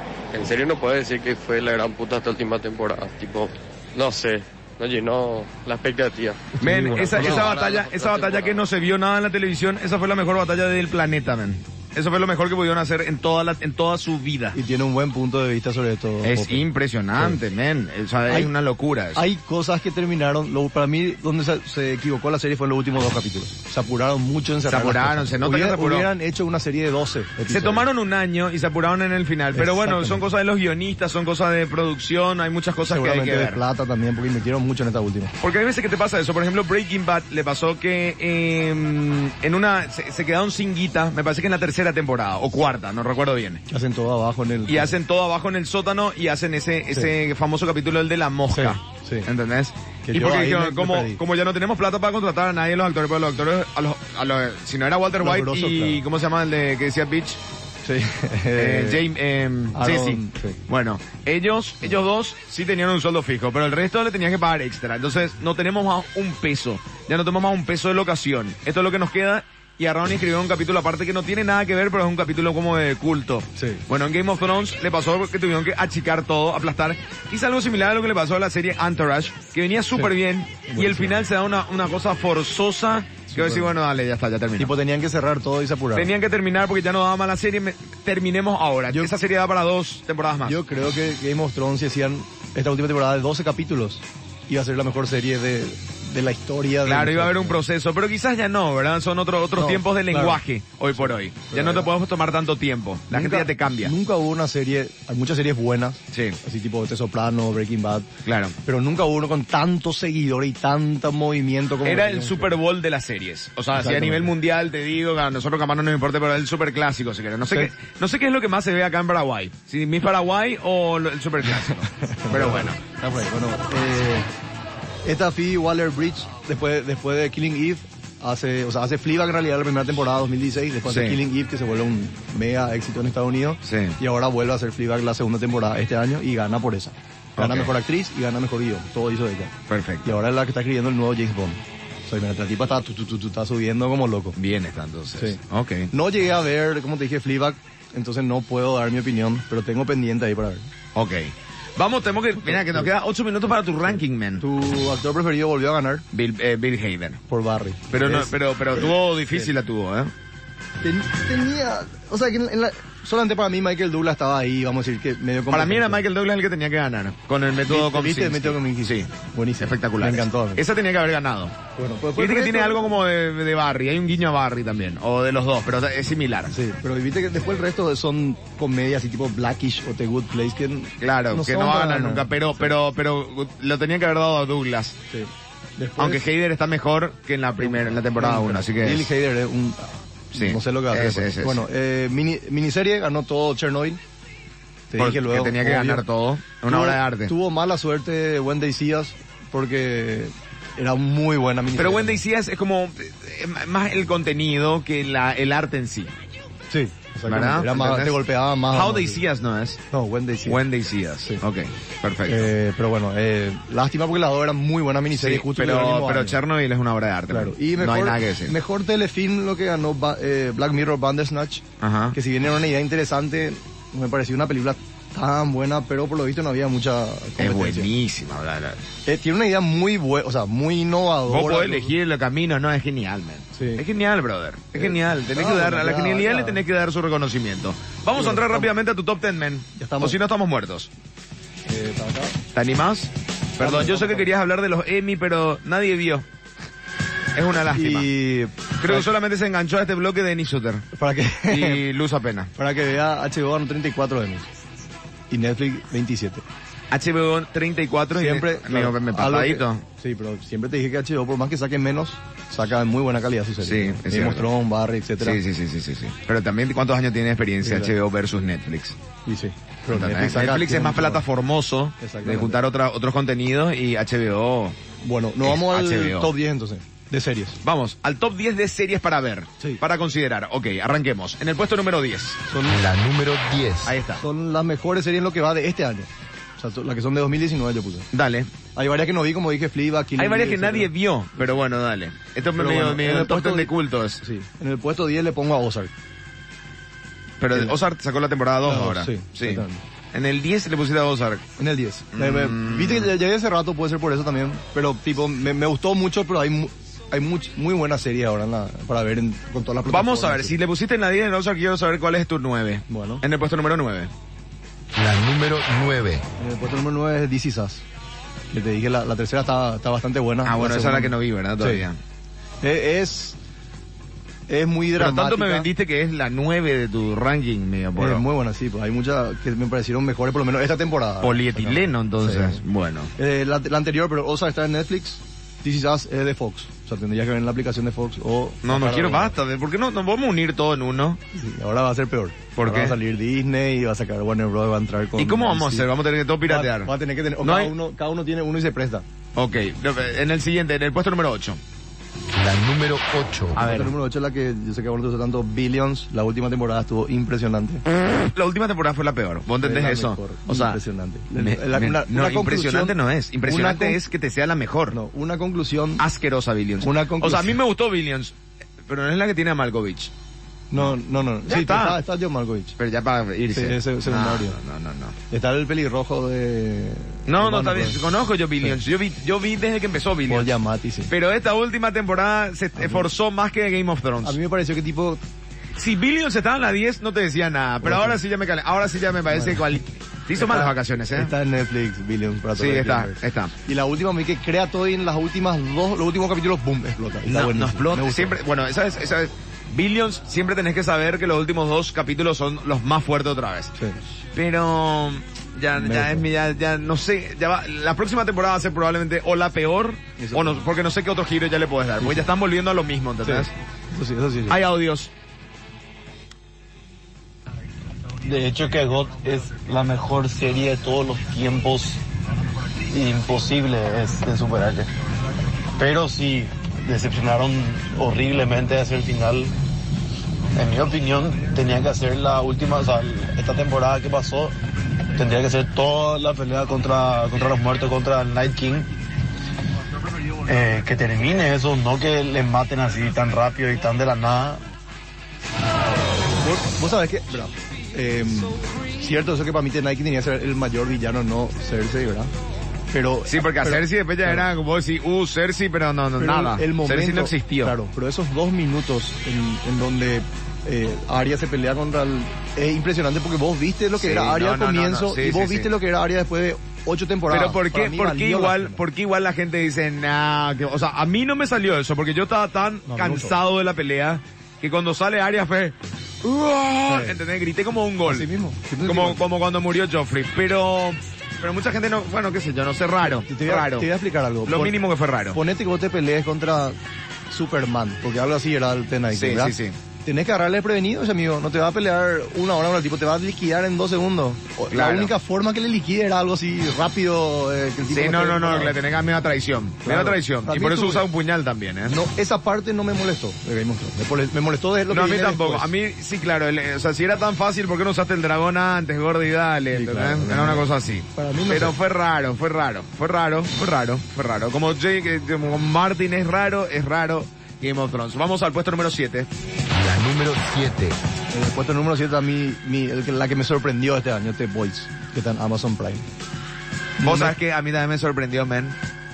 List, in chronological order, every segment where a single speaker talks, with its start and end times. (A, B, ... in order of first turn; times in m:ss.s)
0:00.3-0:08.6 A
0:06.6-0:07.5 B
0:06.6-0:14.6 C
0:14.5-0:16.6 B
0:16.2-0:19.2 C
0:19.1-0:27.9 B
0:24.7-0:26.1 C
0:27.5-0:33.6 C
0:29.6-0:30.2 B
0:32.9-0:35.3 B
0:35.4-0:43.6 C
0:43.7-0:44.9 B
0:44.7-0:57.4 C
0:48.5-0:49.3 B
0:50.1-0:51.2 B
0:55.2-0:56.0 B
0:57.8-0:59.0 B
0:58.6-1:24.7 C
0:59.7-1:00.6 B
1:13.6-1:13.8 B
1:20.7-1:21.2 B
1:23.3-1:23.7 B
1:24.6-1:26.1 B
1:25.9-1:30.6 C
1:30.4-1:37.6 B
1:36.8-1:43.9 C
1:39.6-1:40.4 B
1:40.9-1:41.9 B
1:43.1-1:48.1 B
1:46.1-1:46.4 C
1:48.2-1:48.5 C
1:48.6-1:52.6 B
1:51.8-2:02.8 C
1:53.7-1:54.3 B
2:01.6-2:04.3 B
2:05.0-2:19.5 B
2:10.9-2:11.2 C
2:13.6-2:14.0 C
2:17.4-2:17.7 C
2:19.7-2:20.2 C
2:20.0-2:24.4 B
2:24.4-2:25.9 C
2:25.9-2:30.7 B
2:31.0-2:34.4 C
2:32.4-2:32.9 B
2:33.9-2:36.0 B
2:36.1-2:37.2 C
2:37.3-2:39.5 B
2:37.9-2:40.1 C
2:40.8-2:46.0 B
2:45.5-2:49.1 C
2:47.7-2:50.6 B
2:49.6-2:51.5 C
2:51.8-2:52.9 B
2:52.2-2:56.5 C
2:56.5-3:02.7 B
3:01.0-3:05.0 C
3:05.1-3:06.2 B
3:06.0-3:09.1 C
3:07.6-3:14.0 B
3:10.3-3:11.6 C
3:14.9-3:16.0 B
3:15.0-3:17.3 C
3:16.6-3:22.2 B
3:21.8-3:26.1 C
3:26.7-3:29.2 B
3:27.3-3:28.2 C
3:28.7-3:29.8 C
3:29.9-3:30.6 B
3:30.5-3:32.5 C
3:32.3-3:36.4 B
3:35.1-3:38.5 C
3:37.3-3:47.9 B
3:41.8-3:42.1 C
3:47.4-3:48.8 C
3:49.1-3:51.9 B
3:51.3-4:00.9 C
3:53.5-3:53.8 B
3:54.7-3:56.6 B
3:58.2-3:58.7 B
3:59.8-4:00.2 B
4:01.7-4:02.4 B
4:02.5-4:06.2 C
4:03.6-4:04.3 B
4:07.3-4:08.1 C
4:07.7-4:09.1 B
4:08.8-4:10.8 C
4:10.9-4:11.8 B
4:11.5-4:12.5 C
4:12.6-4:14.5 B
4:15.3-4:16.4 B
4:16.9-4:19.8 C
4:18.1-4:25.4 B
4:23.6-4:24.4 C
4:25.2-4:29.0 C
4:27.6-4:27.9 B
4:29.2-4:31.2 B
4:29.9-4:34.8 C
4:32.0-4:32.6 B
4:35.0-4:37.6 B
4:35.4-4:36.3 C
4:37.6-4:42.4 C
4:42.5-4:42.8 B
4:42.7-4:44.0 D
4:43.8-4:44.2 C
4:44.2-4:48.0 B
4:48.1-4:48.5 C
4:48.8-4:50.9 B
4:50.2-4:54.2 C
4:52.6-4:53.7 B
4:54.2-4:55.9 B
4:57.4-5:01.4 C
4:58.6-4:59.8 B
5:01.6-5:10.5 B
5:02.1-5:03.1 C
5:09.9-5:14.1 C
5:12.9-5:13.2 B
5:14.9-5:16.2 D
5:16.4-5:17.8 B
5:18.5-5:21.8 B
5:20.4-5:22.0 C
5:22.6-5:23.4 B
5:24.5-5:25.6 B
5:25.0-5:28.2 C
5:28.0-5:32.6 B
5:31.2-5:33.1 C
5:33.2-5:39.3 B
5:38.6-5:41.2 C
5:41.3-5:45.8 B
5:42.6-5:43.0 C
5:45.2-5:46.9 C
5:46.5-5:49.0 B
5:47.4-5:47.7 C
5:49.4-5:51.6 C
5:52.3-5:53.6 D
5:53.6-5:53.9 C
5:53.6-5:57.8 B
5:58.3-6:00.8 C
5:59.6-6:02.9 B
6:01.4-6:05.0 C
6:03.4-6:04.0 B
6:04.9-6:06.0 B
6:06.0-6:08.3 C
6:06.8-6:07.6 B
6:08.9-6:10.1 C
6:10.7-6:12.8 B
6:11.4-6:12.0 C
6:12.8-6:15.1 C
6:13.5-6:14.6 B
6:15.3-6:18.0 B
6:17.3-6:20.5 C
6:20.3-6:21.1 B
6:21.1-6:24.4 C
6:22.8-6:23.1 B
6:24.2-6:25.2 B
6:25.8-6:31.3 C
6:27.8-6:28.2 B
6:29.3-6:29.6 B
6:30.4-6:38.4 B
6:32.6-6:33.5 C
6:37.3-6:43.7 C
6:44.3-6:53.5 C
6:45.8-6:46.2 B
6:50.2-6:50.6 B
6:52.0-6:52.3 B
6:53.2-6:54.6 B
6:54.5-6:55.1 C
6:58.2-7:02.0 E
7:02.9-7:04.9 E
7:05.8-7:09.5 E
7:10.5-7:14.6 E
7:15.1-7:18.9 E
7:20.4-7:24.6 E
7:26.4-7:32.3 B
7:32.9-7:34.4 B
7:33.3-7:37.7 C
7:36.2-7:48.8 B
7:44.0-7:45.7 C
7:47.3-7:58.3 C
7:52.9-7:53.4 B
7:56.9-7:57.2 B
7:58.1-7:59.2 B
7:58.8-8:03.9 C
8:03.2-8:04.8 B
8:04.5-8:05.4 C
8:05.3-8:06.8 B
8:07.3-8:09.5 B
8:09.1-8:09.7 C
8:10.0-8:18.7 B
8:14.7-8:15.1 C
8:17.9-8:21.9 C
8:19.8-8:21.0 B
8:21.9-8:25.7 B
8:24.9-8:39.3 C
8:29.7-8:31.7 B
8:39.7-8:41.0 D
8:41.3-8:46.0 B
8:47.0-8:47.3 B
8:47.0-8:48.8 C